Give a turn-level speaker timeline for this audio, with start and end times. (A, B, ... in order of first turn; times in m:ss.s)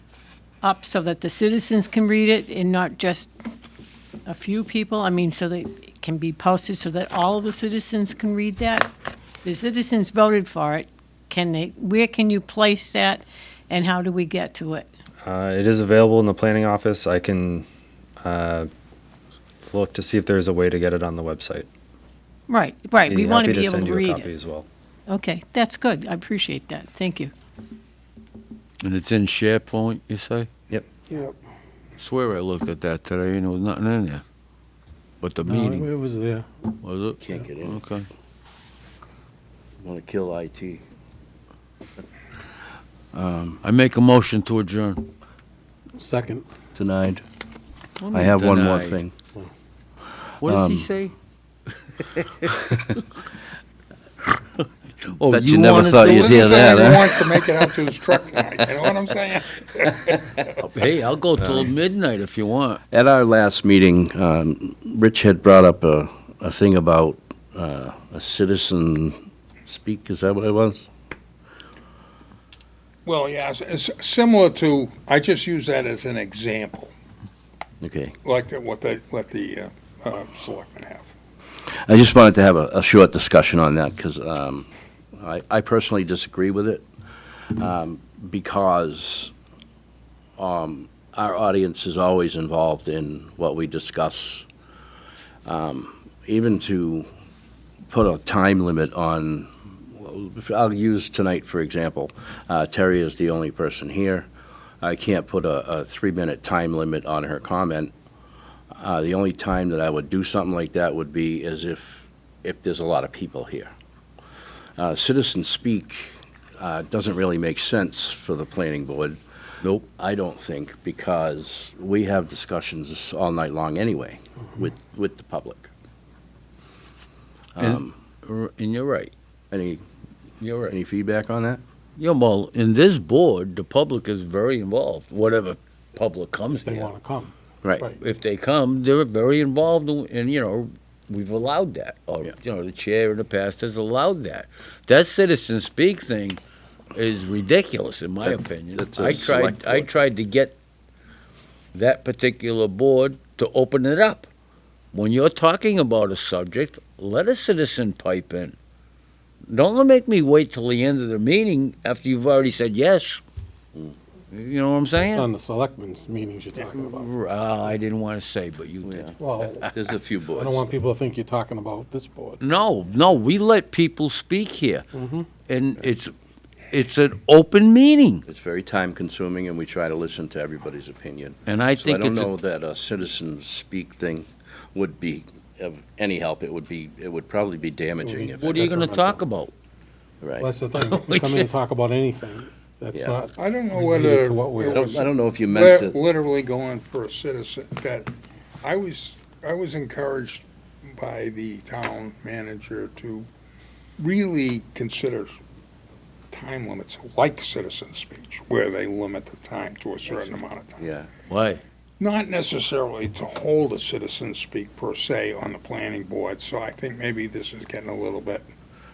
0:00.6-0:03.3 A
0:04.2-0:08.9 A
0:09.4-0:14.9 A
0:15.2-0:17.6 B
0:18.2-0:18.7 B
0:19.6-0:21.6 B
0:22.5-0:24.3 A
0:23.0-0:24.6 B
0:25.1-0:27.3 A
0:28.8-0:30.5 C
0:32.0-0:34.2 C
0:35.2-0:35.9 C
0:35.4-0:36.5 D
0:36.8-0:38.1 C
0:37.2-0:37.8 E
0:39.8-0:40.8 E
0:43.1-0:43.6 E
0:43.6-0:45.0 C
0:46.0-0:46.5 D
0:46.7-0:47.2 E
0:48.0-0:49.0 C
0:48.1-0:49.1 E
0:50.4-0:51.1 C
0:50.4-0:50.9 E
0:52.0-0:53.0 C
0:54.6-0:57.4 C
0:55.3-0:57.4 E
0:56.3-1:00.3 F
1:00.6-1:02.8 C
1:01.4-1:01.7 E
1:02.9-1:10.9 E
1:13.0-1:16.9 F
1:17.8-1:18.1 E
1:18.2-1:21.1 F
1:21.8-1:26.8 E
1:27.5-1:29.3 E
1:30.4-1:34.4 E
1:35.4-1:37.1 E
1:37.9-1:44.3 E
1:44.8-1:47.9 E
1:48.7-1:53.7 E
1:54.8-1:59.2 E
2:00.0-2:05.7 E
2:07.6-2:07.9 E
2:07.6-2:09.1 C
2:09.5-2:09.8 E
2:10.4-2:11.6 E
2:10.5-2:10.7 C
2:12.0-2:16.9 C
2:16.6-2:18.0 D
2:18.0-2:26.4 C
2:26.9-2:30.5 C
2:28.2-2:30.0 E
2:31.7-2:34.3 C
2:34.9-2:38.5 C
2:39.5-2:43.2 C
2:44.3-2:45.3 C
2:45.0-2:47.1 D
2:46.8-2:49.1 C
2:48.8-2:50.7 E
2:49.2-2:49.7 D
2:50.4-2:52.4 D
2:52.4-2:54.8 C
2:54.9-2:55.3 D
2:55.5-2:56.1 C
2:56.7-2:58.2 C
2:58.2-3:08.6 E
3:01.5-3:02.3 C
3:08.0-3:09.2 D
3:08.3-3:09.5 C
3:10.2-3:10.5 E
3:10.4-3:15.0 D
3:10.7-3:11.5 C
3:13.4-3:23.3 F
3:14.7-3:16.0 E
3:24.0-3:25.4 F
3:26.3-3:30.8 F
3:30.1-3:31.1 E
3:31.3-3:31.6 C
3:32.0-3:38.4 F